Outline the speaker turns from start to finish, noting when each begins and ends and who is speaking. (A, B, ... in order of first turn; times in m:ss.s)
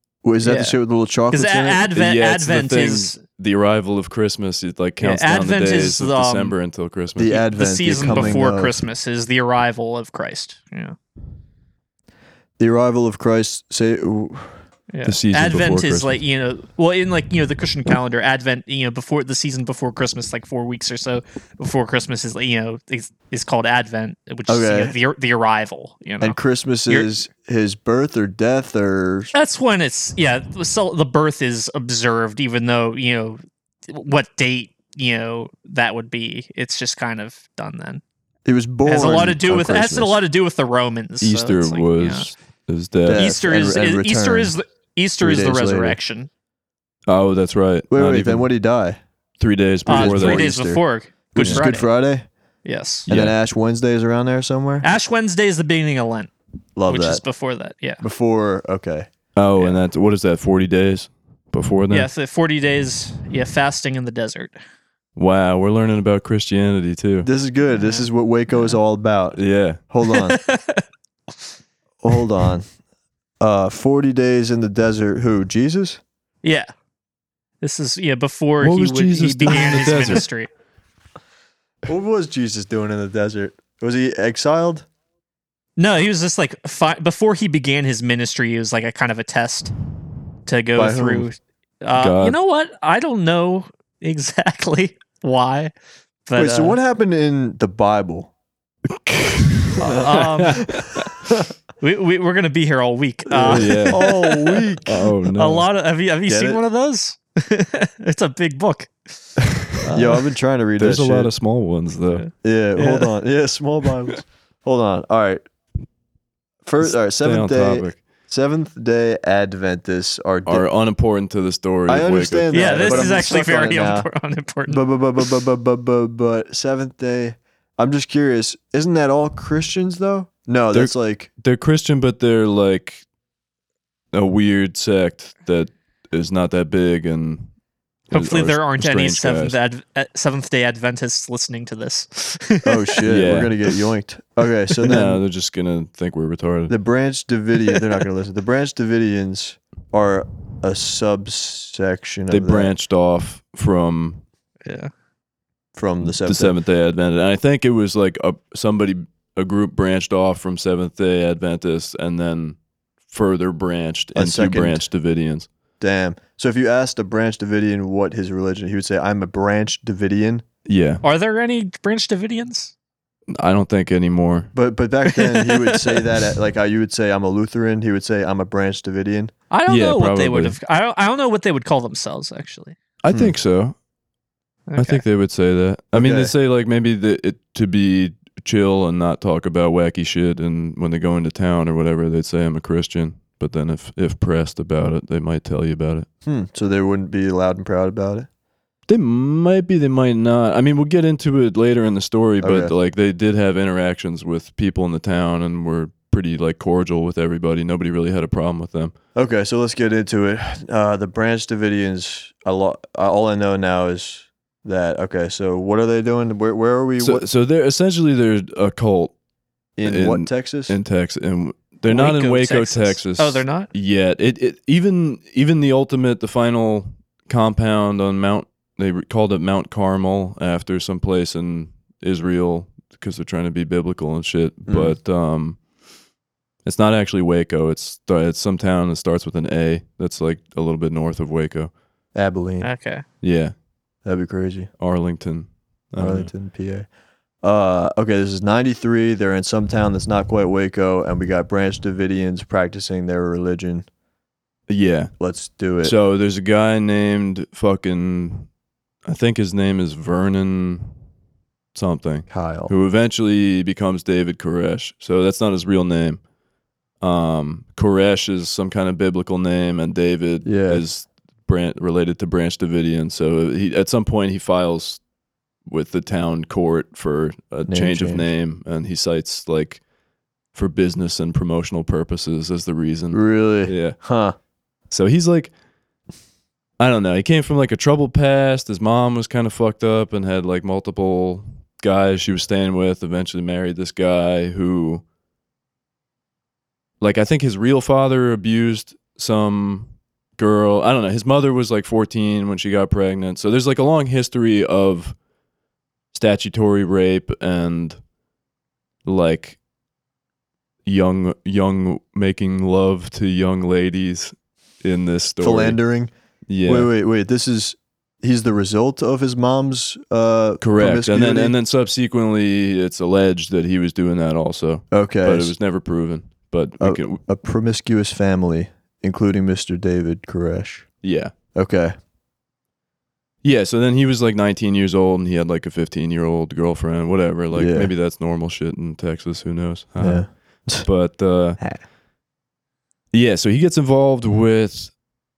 0:00.2-0:01.8 A
0:00.4-0:00.8 B
0:01.3-0:03.2 B
0:01.9-0:07.4 C
0:05.0-0:06.5 B
0:07.2-0:08.8 A
0:07.2-0:11.0 B
0:08.0-0:08.4 C
0:12.6-0:14.6 A
0:14.9-0:26.4 B
0:15.0-0:16.2 C
0:24.5-0:24.9 A
0:26.2-0:29.3 A
0:29.3-0:38.0 B
0:38.4-0:40.2 A
0:38.8-0:42.3 B
0:41.2-0:43.3 C
0:43.0-0:44.5 A
0:43.1-0:46.3 B
0:45.2-0:46.0 A
0:47.1-0:48.5 C
0:47.9-0:49.0 A
0:49.4-0:50.5 C
0:49.9-0:51.9 B
0:49.9-0:52.3 A
0:52.6-0:53.1 B
0:53.1-0:53.3 C
0:53.1-0:54.8 A
0:54.8-0:56.3 B
0:56.8-0:57.2 A
0:56.9-0:58.0 B
0:58.0-0:59.1 A
0:59.3-1:02.1 C
1:01.9-1:04.5 B
1:05.2-1:07.3 C
1:07.2-1:10.4 A
1:07.7-1:08.8 B
1:09.4-1:09.8 C
1:10.1-1:10.8 B
1:12.0-1:12.6 A
1:13.4-1:16.0 A
1:16.4-1:16.7 B
1:17.6-1:20.5 B
1:18.6-1:20.2 C
1:21.9-1:24.8 A
1:25.8-1:29.7 B
1:30.4-1:35.7 B
1:30.7-1:31.3 A
1:31.9-1:32.3 C
1:36.3-1:36.8 B
1:36.4-1:38.3 A
1:38.9-1:41.1 C
1:39.8-1:41.4 A
1:39.8-1:40.8 B
1:41.8-1:44.6 B
1:43.3-1:45.1 A
1:43.4-1:44.0 C
1:44.8-1:45.7 C
1:45.3-1:50.2 B
1:46.3-1:46.6 A
1:49.9-1:51.3 A
1:50.8-1:52.2 C
1:52.1-1:53.1 B
1:52.4-1:55.4 A
1:56.6-2:00.7 A
1:56.8-1:58.0 C
2:00.4-2:03.3 C
2:01.9-2:04.1 A
2:02.5-2:04.8 B
2:04.7-2:11.3 A
2:10.7-2:13.0 C
2:14.1-2:17.5 C
2:18.1-2:19.6 C
2:18.1-2:23.0 B
2:22.6-2:25.2 A
2:23.0-2:23.6 C
2:24.8-2:26.7 C
2:26.7-2:32.7 A
2:32.3-2:34.2 C
2:34.6-2:34.9 B
2:35.7-2:36.6 A
2:36.2-2:42.6 C
2:43.1-2:45.5 C
2:44.1-2:44.8 A
2:45.8-2:50.4 A
2:50.6-2:51.0 C
2:51.0-2:52.7 B
2:53.3-2:54.5 C
2:54.5-2:59.3 A
2:55.0-2:56.1 B
2:59.5-3:02.8 B
2:59.7-3:00.6 C
3:03.0-3:03.8 C
3:04.7-3:05.0 B
3:04.8-3:16.1 C
3:05.9-3:06.3 A
3:16.2-3:18.3 A
3:18.9-3:28.9 C
3:22.4-3:22.7 A
3:29.1-3:37.2 A
3:37.0-3:39.1 C
3:39.8-3:40.8 A
3:39.8-3:55.6 C
3:41.9-3:43.7 B
3:54.7-3:54.9 A
3:56.6-4:01.7 C
4:02.1-4:02.7 A
4:02.6-4:03.0 B
4:03.2-4:03.5 C
4:04.0-4:04.7 A
4:04.8-4:06.3 C
4:06.0-4:06.9 A
4:07.4-4:13.8 A
4:14.7-4:15.1 C
4:15.2-4:15.9 A
4:15.8-4:18.5 C
4:19.0-4:20.9 C
4:21.7-4:26.2 C
4:22.3-4:22.7 A
4:27.0-4:35.0 C
4:30.4-4:30.8 A
4:35.6-4:39.8 C
4:37.7-4:38.3 A
4:40.5-4:44.0 C
4:43.1-4:44.3 A
4:44.9-4:45.5 C
4:46.8-4:55.0 C
4:57.0-5:05.2 C
5:06.1-5:08.0 C
5:09.0-5:09.6 C
5:10.8-5:15.8 C
5:15.4-5:16.1 A
5:16.5-5:16.9 C
5:16.6-5:21.5 A
5:20.6-5:27.2 C
5:24.9-5:25.5 A
5:26.8-5:30.9 A
5:31.0-5:31.3 C
5:31.5-5:31.9 A
5:33.4-5:41.6 C
5:37.5-5:37.9 A
5:40.0-5:40.9 A
5:43.1-5:44.9 C